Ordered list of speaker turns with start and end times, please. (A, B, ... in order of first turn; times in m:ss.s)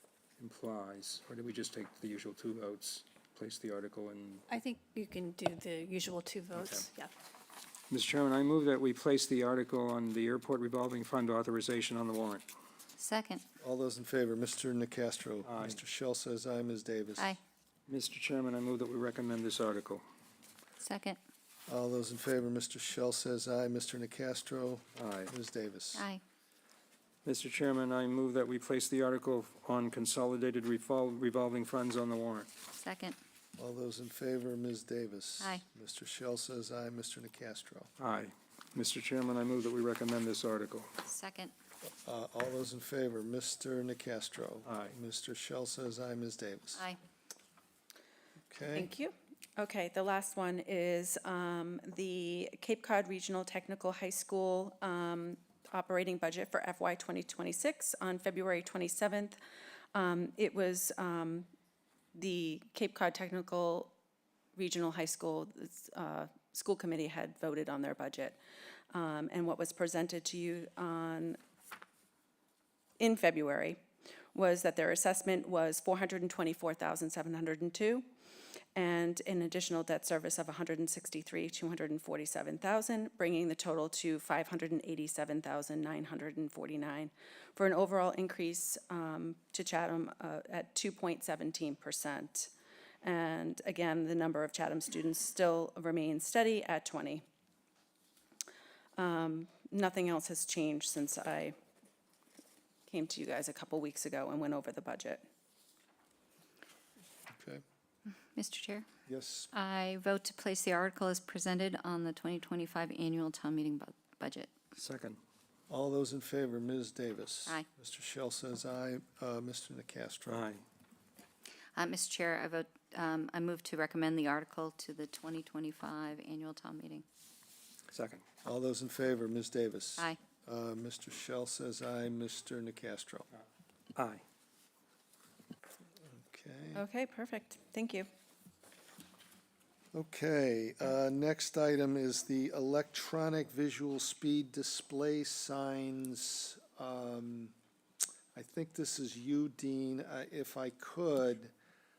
0:00.4-0:04.5 A
0:04.5-0:07.1 B
0:06.5-0:06.9 A
0:07.9-0:12.5 A
0:13.0-0:13.4 C
0:13.6-0:17.3 D
0:15.4-0:15.8 A
0:17.9-0:20.0 A
0:20.8-0:21.2 C
0:21.7-0:26.0 D
0:25.0-0:25.3 A
0:26.0-0:26.2 C
0:27.2-0:32.5 A
0:32.8-0:33.2 C
0:33.6-0:37.9 D
0:38.0-0:40.9 A
0:41.0-0:41.5 C
0:41.8-0:46.9 D
0:44.6-0:45.0 A
0:48.5-0:48.9 D
0:48.7-0:59.4 E
0:59.9-1:01.5 E
1:02.1-1:03.9 E
1:04.6-1:08.4 E
1:08.9-1:11.4 E
1:13.0-1:13.8 E
1:14.3-1:18.1 E
1:18.8-1:32.5 E
1:33.0-1:37.2 E
1:39.0-1:41.6 E
1:42.9-1:45.3 E
1:47.3-1:47.6 D
1:48.4-1:48.9 C
1:49.1-1:49.5 D
1:49.5-1:54.5 C
1:54.7-1:55.2 A
1:55.7-2:00.5 D
2:00.3-2:00.6 A
2:01.8-2:07.0 C
2:07.9-2:08.2 A
2:08.4-2:13.3 D
2:14.0-2:14.2 A
2:16.2-2:16.8 D
2:16.7-2:18.1 E
2:19.9-2:27.5 D
2:28.4-2:31.5 D